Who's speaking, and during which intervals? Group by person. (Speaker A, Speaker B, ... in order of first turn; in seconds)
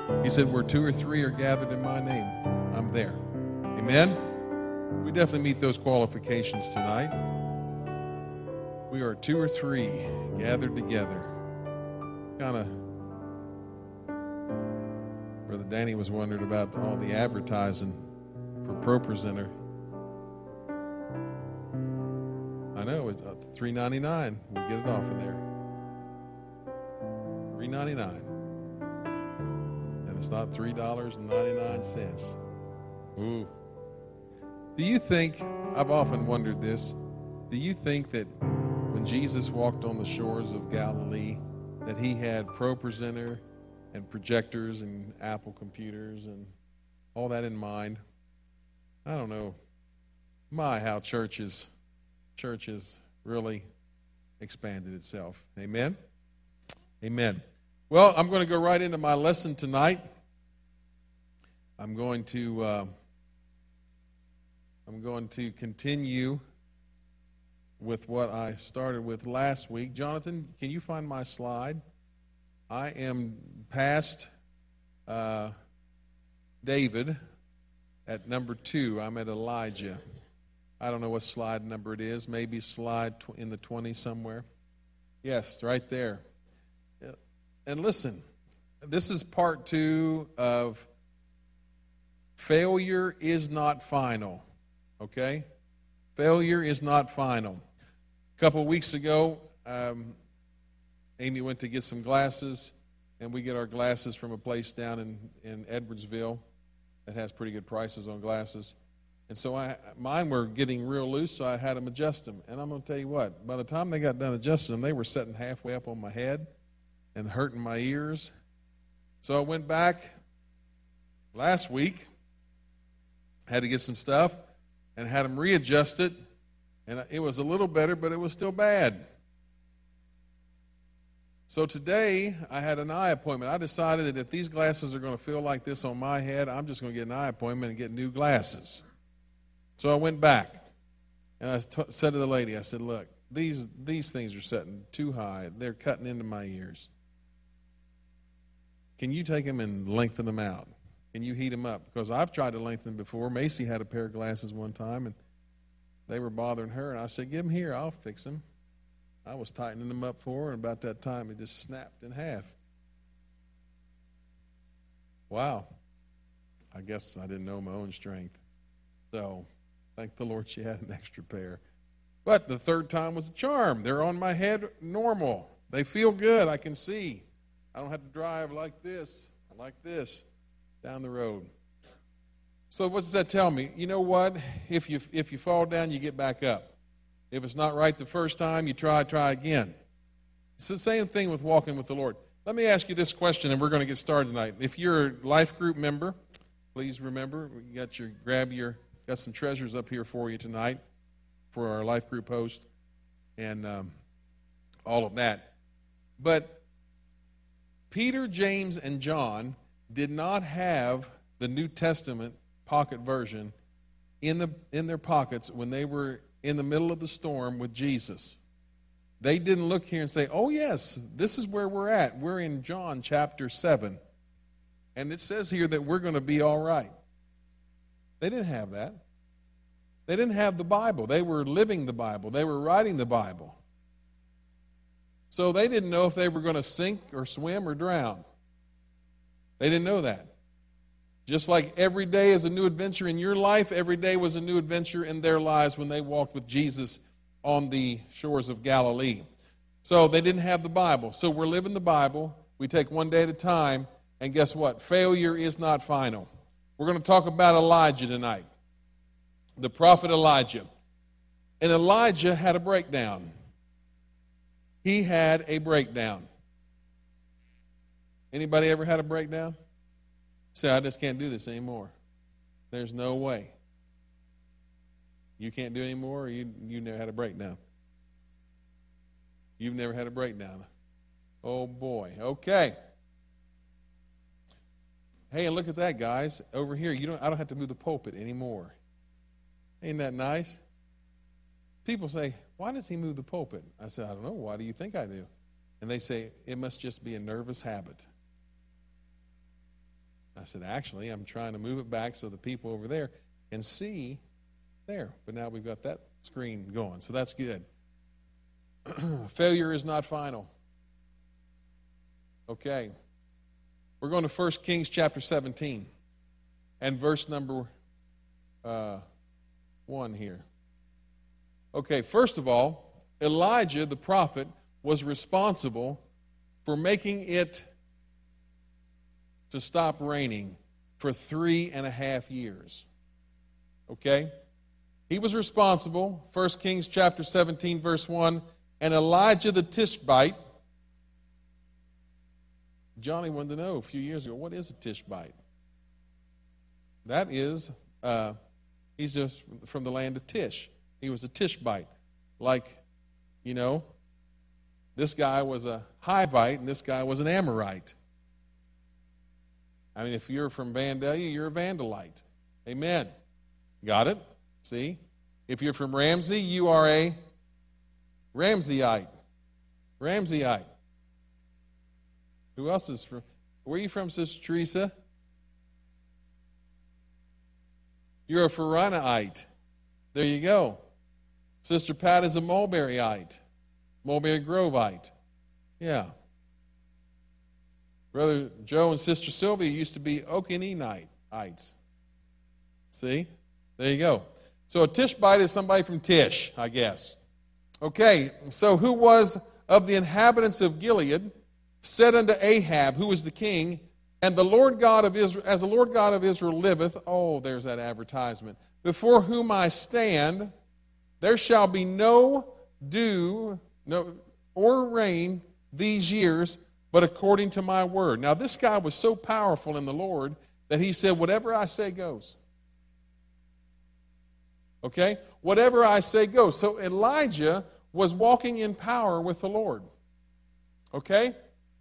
Speaker A: 0.2-3.2, 3.7-4.2, 5.0-7.1, 8.9-11.3, 12.4-12.7, 15.5-18.0, 18.6-19.5, 22.7-25.4, 27.5-28.3, 30.0-32.4, 33.1-33.5, 34.8-37.0, 37.5-38.3, 38.9-46.5, 47.1-48.0, 49.0-49.5, 50.5-51.7, 52.4-53.6, 54.4-56.0, 57.0-60.0, 61.8-62.9, 64.8-66.4, 67.8-71.8, 72.7-74.3, 75.1-75.5, 76.6-77.2, 78.0-80.0, 80.8-84.4, 85.2-86.2, 87.0-88.2, 88.8-90.9, 92.4-94.4, 95.0-95.4, 96.2-97.6, 98.4-100.2, 101.2-106.4, 107.0-108.7, 109.3-116.5, 117.1-118.3, 119.2-120.1, 121.3-122.1, 123.5-124.4, 125.0-126.1, 126.9-129.0, 131.5-138.8, 139.8-140.6, 141.4-146.9, 149.0-155.1, 156.1-158.4, 159.2-162.5, 165.3-165.7, 166.7-168.4, 169.1-169.4, 170.0-171.6, 172.2-180.2, 180.8-181.5, 182.7-186.7, 187.3-189.7, 190.6-196.1, 196.7-200.8, 201.5-202.7, 203.4-203.9, 204.8-205.5, 206.2-206.6, 207.9-213.5, 214.2-218.4, 219.2-224.0, 224.9-226.9, 228.2-229.0, 230.1-233.6, 235.3-238.2, 239.6-240.3, 241.2-249.2, 249.8-256.3, 256.8-258.4, 259.6-260.7, 261.6-263.3, 264.8-266.3, 268.3-269.5, 270.5-271.9, 272.7-273.5, 275.4-277.6, 279.6-280.6, 281.4-282.7, 285.3-288.7, 289.8-290.6, 291.8-295.3, 295.8-298.1, 300.4-304.2, 304.9-307.6, 308.9-310.5, 312.5-312.9, 314.0-315.9, 316.8-317.7, 318.6-319.0, 319.9-320.4, 321.7-326.0, 326.6-327.6, 329.5-332.8, 333.9-334.3, 335.1-340.4, 343.0-345.3, 347.0-348.3, 349.0-352.8, 353.4-353.8, 354.9-357.9, 359.9-363.1, 363.8-367.2, 368.3-369.1, 370.0-370.6, 372.6-374.9, 378.3-379.4, 380.1-380.8, 381.6-383.4, 384.0-385.1, 385.8-386.1, 388.1-391.7, 392.9-397.2, 397.8-410.5, 411.2-422.4, 424.8-429.9, 430.9-431.3